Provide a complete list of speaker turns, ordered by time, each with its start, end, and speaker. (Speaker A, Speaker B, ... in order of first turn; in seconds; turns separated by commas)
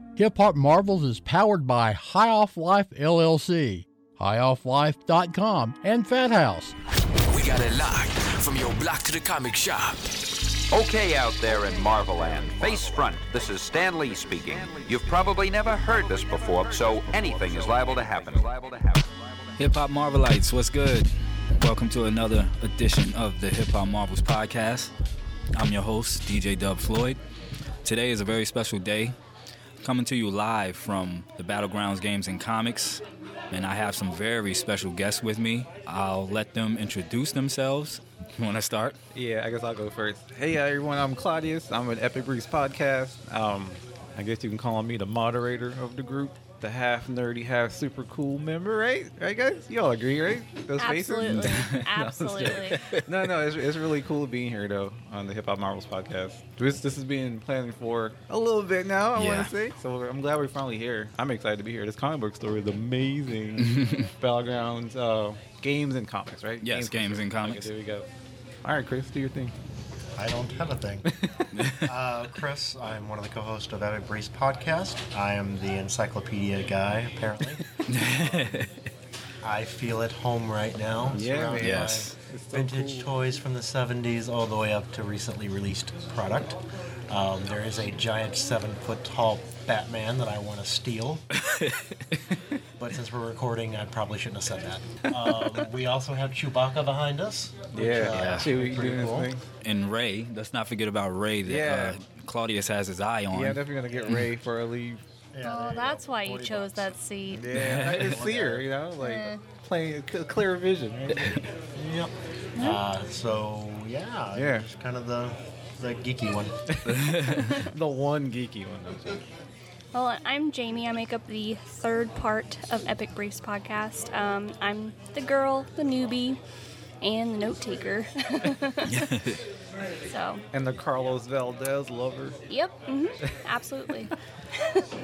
Speaker A: 0.2-6.8, Speaker B: 7.3-10.1, Speaker C: 10.7-19.1, Speaker D: 19.6-24.9, Speaker D: 25.5-27.2, Speaker D: 27.9-29.1, Speaker D: 29.8-39.0, Speaker E: 39.1-68.1, Speaker F: 50.8-52.8, Speaker D: 51.3-51.8, Speaker D: 52.5-53.1, Speaker D: 59.2-59.5, Speaker D: 63.6-64.1, Speaker D: 66.6-67.7, Speaker E: 68.6-69.5, Speaker G: 70.2-71.1, Speaker E: 71.1-71.6, Speaker D: 71.5-71.9, Speaker G: 71.8-77.8, Speaker D: 77.9-78.7, Speaker G: 79.4-86.6, Speaker E: 81.1-83.1, Speaker D: 81.6-82.1, Speaker G: 87.1-91.2, Speaker D: 91.4-92.0, Speaker G: 92.8-99.3, Speaker E: 97.7-99.5, Speaker D: 98.0-98.5, Speaker D: 99.6-104.2, Speaker E: 101.5-102.0, Speaker E: 103.3-105.0, Speaker G: 105.3-106.9, Speaker F: 105.4-107.6, Speaker E: 107.3-111.5, Speaker D: 107.5-108.3, Speaker G: 107.6-108.7, Speaker F: 109.0-109.4, Speaker G: 111.8-116.5, Speaker E: 114.3-114.6, Speaker E: 116.7-119.2, Speaker D: 116.9-117.6, Speaker F: 119.9-126.4, Speaker F: 127.0-129.0, Speaker D: 128.8-129.4, Speaker F: 130.0-130.4, Speaker E: 130.5-132.4, Speaker F: 132.5-134.8